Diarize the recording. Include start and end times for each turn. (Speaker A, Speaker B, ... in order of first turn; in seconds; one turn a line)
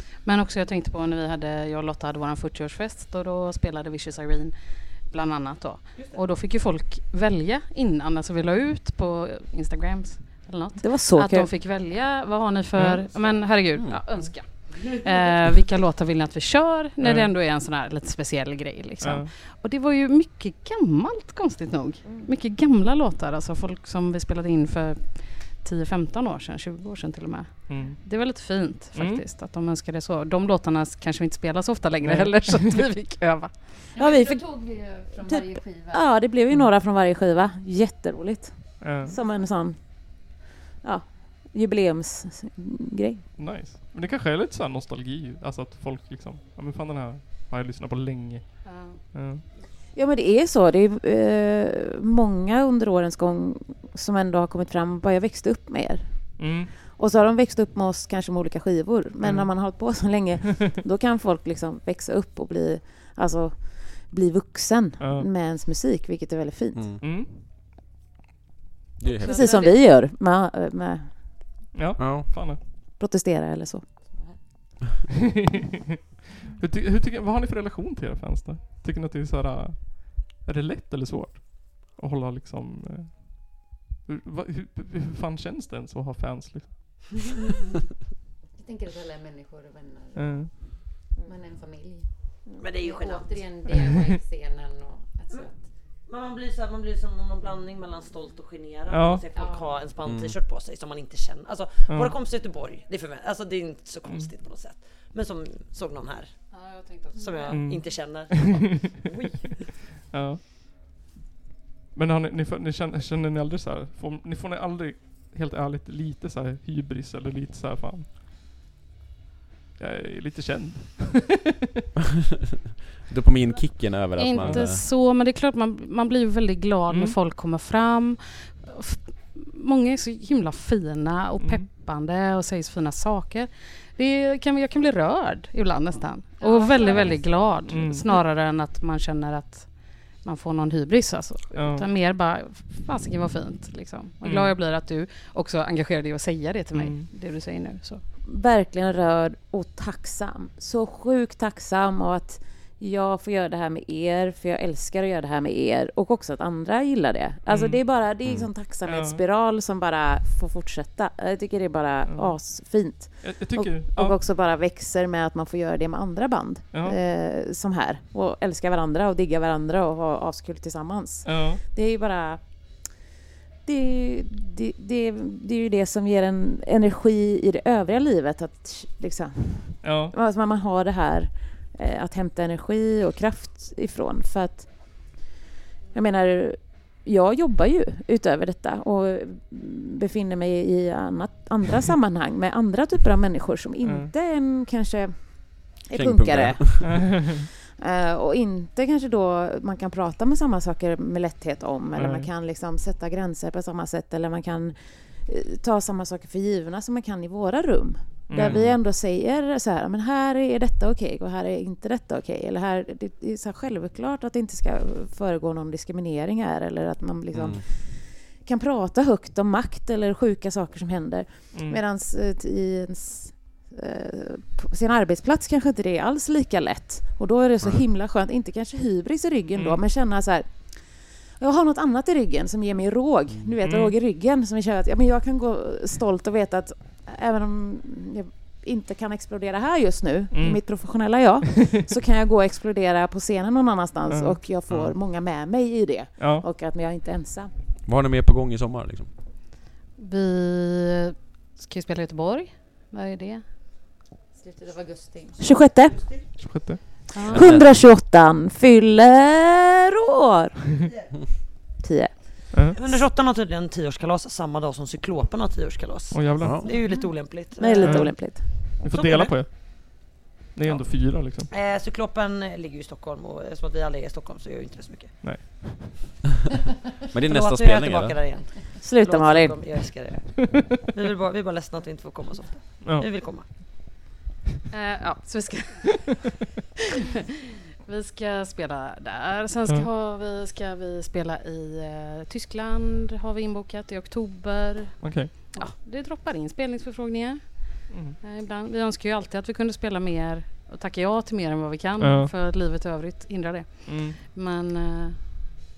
Speaker A: 0.2-33.6
Speaker B: 10.8-11.5
Speaker C: 12.7-13.0
Speaker D: 13.7-14.3
Speaker C: 17.0-17.3
Speaker C: 19.0-19.3
Speaker C: 27.7-28.0
Speaker C: 28.9-29.2
Speaker C: 32.0-32.8
Speaker E: 34.0-36.1
Speaker B: 34.0-34.6
Speaker B: 35.3-43.2
Speaker C: 38.8-39.1
Speaker C: 43.4-49.4
Speaker A: 48.6-49.0
Speaker B: 49.9-66.9
Speaker C: 56.4-56.7
Speaker C: 59.2-59.5
Speaker C: 65.0-65.3
Speaker D: 66.7-67.0
Speaker C: 67.0-67.5
Speaker D: 69.0-69.5
Speaker A: 69.2-69.7
Speaker B: 69.3-71.5
Speaker C: 71.7-72.6
Speaker D: 72.0-72.5
Speaker B: 73.0-73.9
Speaker E: 74.1-74.4
Speaker C: 76.5-87.3
Speaker E: 88.6-95.7
Speaker C: 90.1-90.5
Speaker F: 92.6-93.4
Speaker C: 93.7-94.0
Speaker F: 96.0-106.4
Speaker C: 98.9-99.2
Speaker E: 99.3-99.7
Speaker D: 100.0-100.3
Speaker C: 101.9-102.1
Speaker A: 106.5-107.5
Speaker F: 107.2-109.7
Speaker E: 107.2-107.5
Speaker C: 107.5-108.9
Speaker C: 110.1-110.4
Speaker C: 111.9-118.1
Speaker C: 119.8-121.5
Speaker D: 123.1-124.8
Speaker A: 124.2-148.0
Speaker C: 124.4-124.8
Speaker C: 126.9-127.2
Speaker C: 131.4-131.7
Speaker E: 136.4-137.6
Speaker C: 137.7-138.1
Speaker C: 141.5-141.8
Speaker C: 144.2-144.5
Speaker C: 146.7-147.1
Speaker B: 148.2-172.4
Speaker C: 157.5-157.8
Speaker D: 158.2-158.5
Speaker C: 158.8-159.2
Speaker C: 162.1-162.4
Speaker C: 162.9-164.2
Speaker C: 166.7-167.0
Speaker C: 171.2-171.6
Speaker B: 173.6-185.2
Speaker C: 179.8-180.1
Speaker B: 185.9-247.5
Speaker C: 193.8-194.1
Speaker D: 195.9-197.1
Speaker C: 196.8-197.4
Speaker C: 201.9-202.3
Speaker C: 208.3-208.6
Speaker D: 208.4-208.8
Speaker D: 217.3-217.6
Speaker C: 221.5-221.8
Speaker C: 229.5-229.8
Speaker C: 233.6-233.9
Speaker C: 240.3-241.1
Speaker C: 244.1-244.4
Speaker C: 246.2-246.4
Speaker D: 247.8-249.1
Speaker A: 250.0-253.4
Speaker E: 254.3-255.6
Speaker B: 255.4-256.1
Speaker F: 255.9-256.3
Speaker C: 256.4-256.8
Speaker A: 257.1-257.4
Speaker B: 257.2-260.7
Speaker D: 257.3-257.8
Speaker F: 260.8-261.2
Speaker B: 261.8-262.5
Speaker C: 262.5-262.8
Speaker F: 262.7-268.2
Speaker C: 266.1-266.6
Speaker B: 267.6-268.7
Speaker C: 267.8-271.5
Speaker F: 268.8-269.4
Speaker F: 270.6-275.2
Speaker C: 275.2-276.0
Speaker D: 277.1-278.2
Speaker F: 277.2-283.5
Speaker B: 278.8-279.6
Speaker C: 280.4-280.7
Speaker C: 282.8-283.1
Speaker A: 284.7-286.2
Speaker A: 287.8-305.4
Speaker C: 295.0-295.5
Speaker C: 297.9-298.2
Speaker C: 302.0-302.3
Speaker C: 303.9-304.2